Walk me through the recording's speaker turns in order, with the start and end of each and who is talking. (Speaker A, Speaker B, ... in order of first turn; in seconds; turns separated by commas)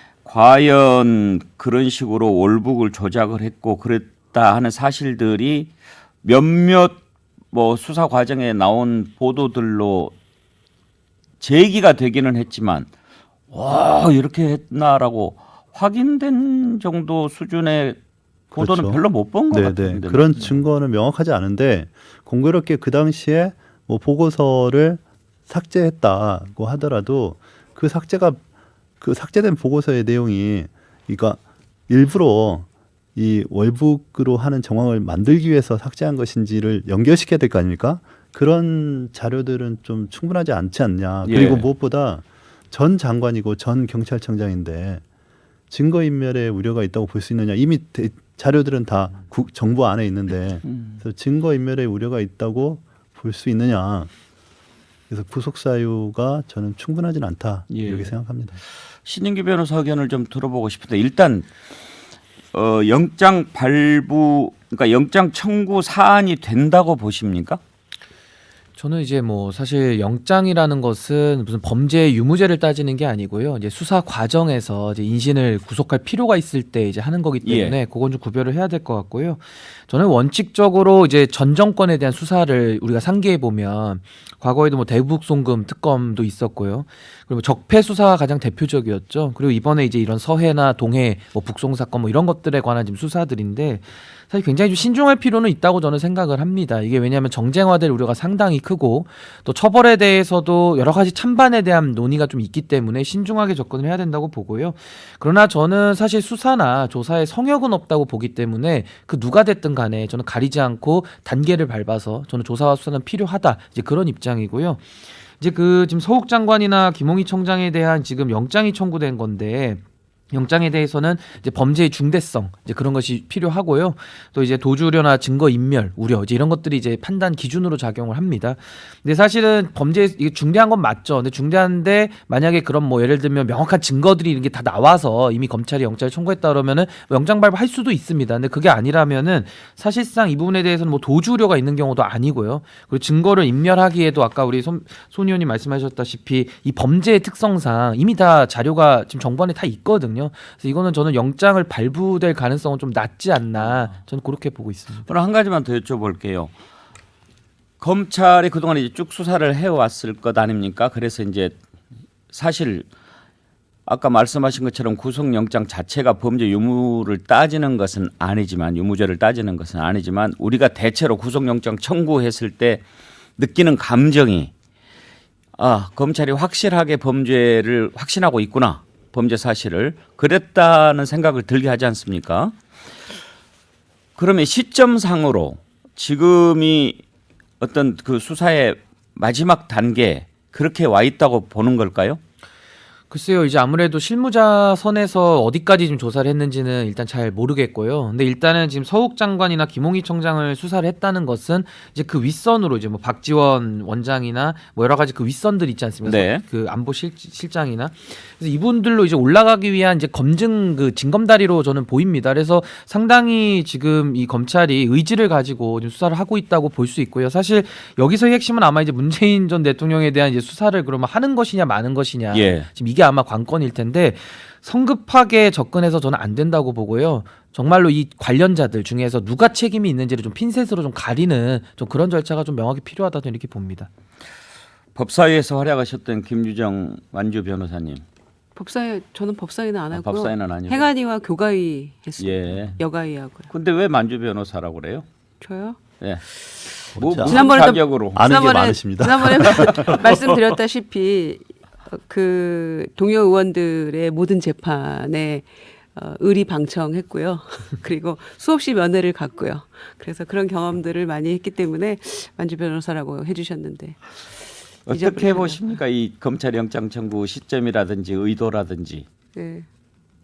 Speaker A: 0.2-5.7, Speaker A: 6.2-7.0, Speaker A: 7.5-10.1, Speaker A: 11.4-12.9, Speaker A: 13.5-18.0, Speaker A: 18.5-20.6, Speaker B: 18.5-28.4, Speaker B: 29.0-45.0, Speaker A: 41.2-41.7, Speaker B: 45.7-54.1, Speaker A: 50.6-51.0, Speaker B: 55.1-58.6, Speaker A: 57.7-58.1, Speaker A: 59.0-61.5, Speaker A: 62.5-67.6, Speaker C: 68.8-114.8, Speaker A: 77.4-77.8, Speaker C: 115.4-119.8, Speaker C: 120.3-155.1, Speaker A: 155.1-156.5, Speaker A: 157.8-161.6, Speaker A: 162.3-162.9, Speaker A: 163.8-172.8, Speaker A: 173.4-174.5, Speaker A: 175.6-182.6, Speaker A: 184.2-187.0, Speaker A: 187.6-192.2, Speaker C: 193.1-233.9, Speaker A: 206.0-206.4, Speaker A: 222.3-222.7, Speaker A: 234.9-238.0, Speaker D: 238.5-243.5, Speaker A: 239.9-240.9, Speaker A: 242.2-242.8, Speaker A: 243.5-245.1, Speaker D: 245.4-245.8, Speaker A: 246.0-248.3, Speaker B: 246.9-250.0, Speaker D: 247.2-251.4, Speaker D: 251.9-264.0, Speaker A: 264.9-269.1, Speaker D: 264.9-265.6, Speaker D: 269.3-269.7